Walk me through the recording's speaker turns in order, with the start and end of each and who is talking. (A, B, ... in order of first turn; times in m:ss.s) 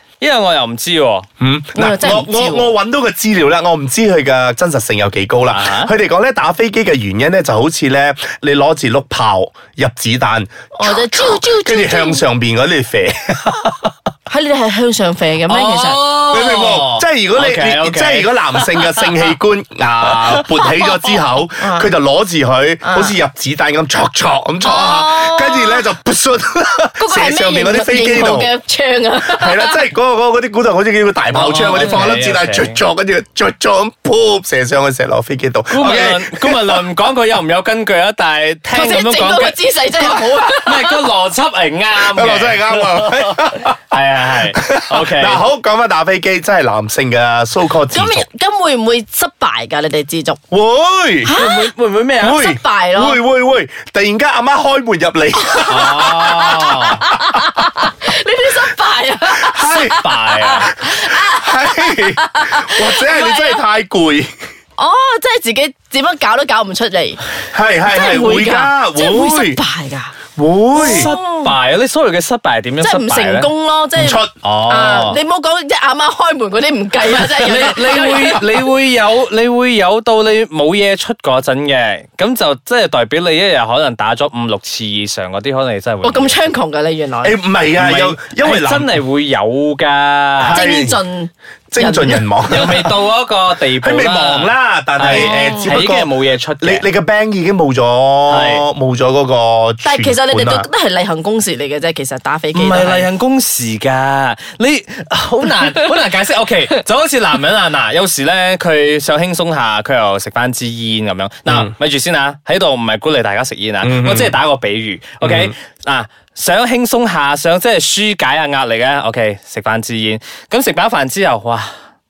0:00.2-0:01.3 A
0:01.4-0:13.9 B
0:01.8-0:02.7 C
0:05.5-0:05.9 A
0:10.8-0:12.2 C
0:14.3-0:16.0 C
0:15.5-0:19.3 A
0:16.3-0:28.5 B
0:20.1-0:20.7 A
0:21.6-0:21.9 C
0:22.8-0:23.2 C
0:24.6-0:25.8 C
0:27.0-0:29.8 C
0:29.3-0:36.8 B
0:31.3-0:32.8 A
0:35.7-0:45.4 A
0:38.7-0:41.0 C
0:42.0-0:43.8 B
0:44.5-0:48.3 B
0:47.9-0:50.4 C
0:50.5-0:51.3 B
0:51.2-0:51.7 C
0:51.3-0:52.4 A
0:52.2-0:56.2 B
0:52.4-0:53.2 C
0:55.4-1:03.6 C
0:55.7-0:57.0 A
0:59.4-1:00.0 B
1:00.0-1:00.7 A
1:00.6-1:04.3 B
1:04.8-1:07.2 C
1:07.5-1:09.6 B
1:07.9-1:10.1 C
1:10.4-1:11.1 B
1:10.7-1:11.5 C
1:10.8-1:13.5 A
1:12.8-1:18.4 C
1:14.0-1:14.3 B
1:14.4-1:15.2 A
1:17.0-1:26.4 A
1:26.0-1:27.4 C
1:27.2-1:29.0 B
1:27.8-1:30.6 A
1:30.4-1:31.0 B
1:30.5-1:32.3 C
1:31.7-1:33.0 B
1:32.5-1:36.8 A
1:33.8-1:40.7 B
1:35.1-1:35.8 C
1:38.3-1:38.6 A
1:39.8-1:43.1 C
1:42.5-2:01.7 A
1:51.5-1:51.7 B
1:53.8-1:54.4 B
1:55.2-1:55.5 B